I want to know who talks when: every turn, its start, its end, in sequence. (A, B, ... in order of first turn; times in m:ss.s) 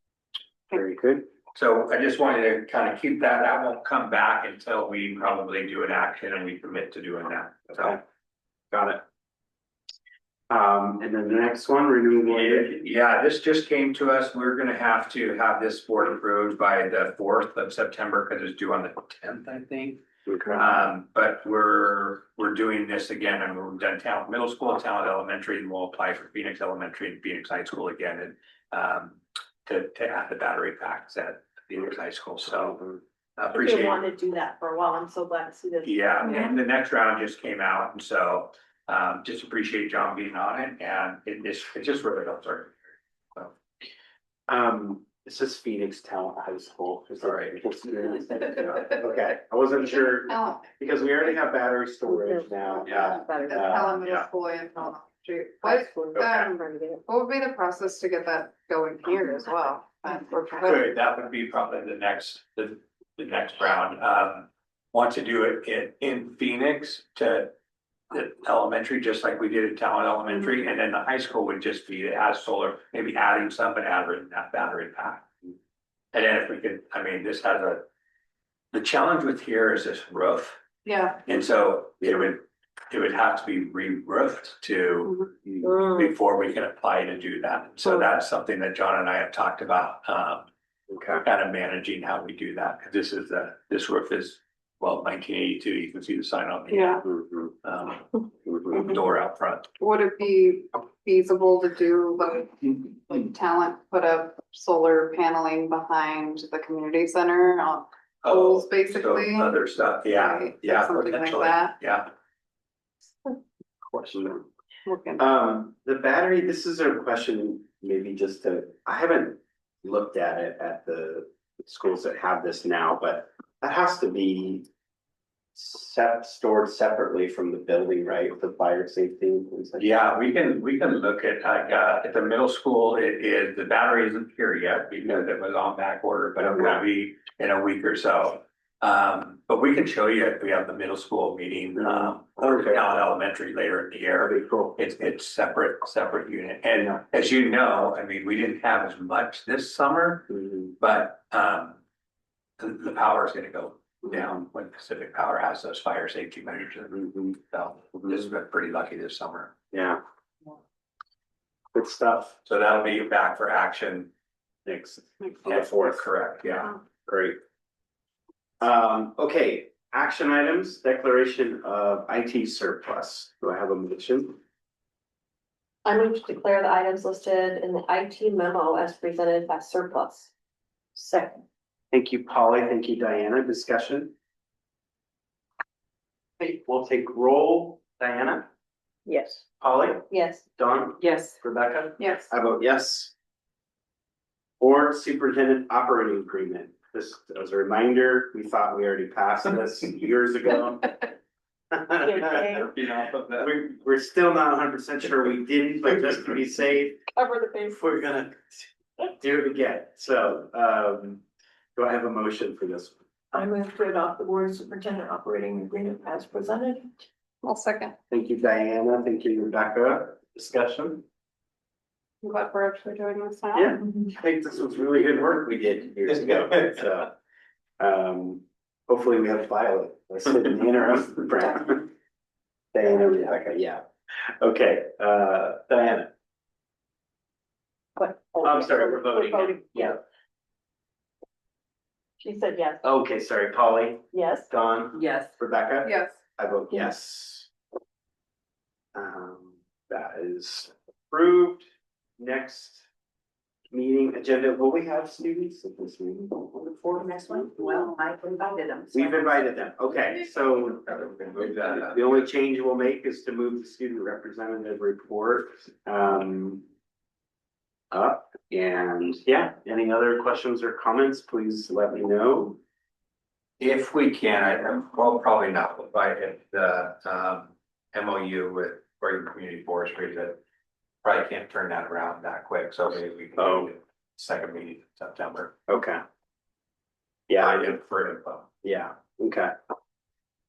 0:00.7-0:01.2 A
0:01.5-0:08.0 B
0:08.7-0:09.0 A
0:10.5-0:12.8 A
0:12.3-0:20.0 B
0:20.3-0:20.6 A
0:20.5-0:32.8 B
0:33.4-0:34.0 B
0:33.5-0:36.5 C
0:35.8-0:42.8 B
0:44.5-0:54.0 A
0:47.2-0:47.6 B
0:50.1-0:50.8 D
0:52.1-0:53.8 C
0:52.8-1:00.9 D
0:54.0-0:54.3 B
0:55.6-0:57.0 C
0:56.1-0:56.5 B
1:00.6-1:07.5 B
1:08.1-1:15.3 B
1:16.1-1:17.8 B
1:18.7-1:20.6 B
1:20.8-1:21.2 D
1:21.2-1:30.5 B
1:25.6-1:26.0 C
1:30.9-1:31.2 A
1:31.2-1:37.0 B
1:36.7-1:37.0 D
1:37.0-1:37.5 A
1:37.6-1:39.7 B
1:38.5-1:38.8 A
1:39.8-1:51.8 D
1:48.2-1:52.1 B
1:53.9-1:54.5 A
1:54.8-1:55.2 D
1:55.2-2:04.6 A
2:05.5-2:09.9 A
2:09.8-2:31.8 B
2:16.4-2:16.8 A
2:21.8-2:22.8 A
2:24.2-2:24.8 A
2:30.3-2:30.7 A
2:32.6-2:39.5 B
2:39.7-2:40.0 A
2:41.7-2:42.4 A
2:42.4-2:44.1 B
2:44.6-2:46.0 A
2:45.4-2:46.8 B
2:47.0-2:47.4 A
2:48.6-2:54.4 A
2:55.8-3:00.3 C
3:00.9-3:01.4 C
3:01.9-3:04.1 A
3:06.4-3:08.5 A
3:09.0-3:09.4 C
3:09.6-3:13.1 A
3:10.1-3:10.4 C
3:12.0-3:12.3 D
3:14.6-3:21.1 A
3:21.7-3:22.7 A
3:22.0-3:22.7 C
3:22.1-3:23.5 B
3:23.4-3:27.0 A
3:27.1-3:27.9 C
3:27.6-3:31.2 A
3:31.8-3:32.9 A
3:33.3-3:36.9 C
3:37.4-3:38.0 D
3:38.1-3:41.0 A
3:42.2-3:43.7 D
3:43.5-3:47.1 A
3:47.8-3:51.9 A
3:52.7-3:56.1 A
3:58.0-4:00.0 C
3:58.4-4:00.0 A
4:02.2-4:02.8 C
4:02.8-4:07.5 A
4:04.1-4:05.3 C
4:05.8-4:06.2 D
4:08.9-4:11.7 A
4:12.2-4:12.8 A
4:13.7-4:17.7 A
4:17.5-4:18.9 C
4:18.9-4:26.6 A
4:20.8-4:22.2 B
4:27.9-4:32.6 A
4:33.6-4:40.4 B
4:41.0-4:45.6 B
4:43.4-4:43.7 A
4:45.7-4:46.0 A
4:47.3-4:47.6 A
4:47.4-4:48.5 B
4:48.6-4:49.5 A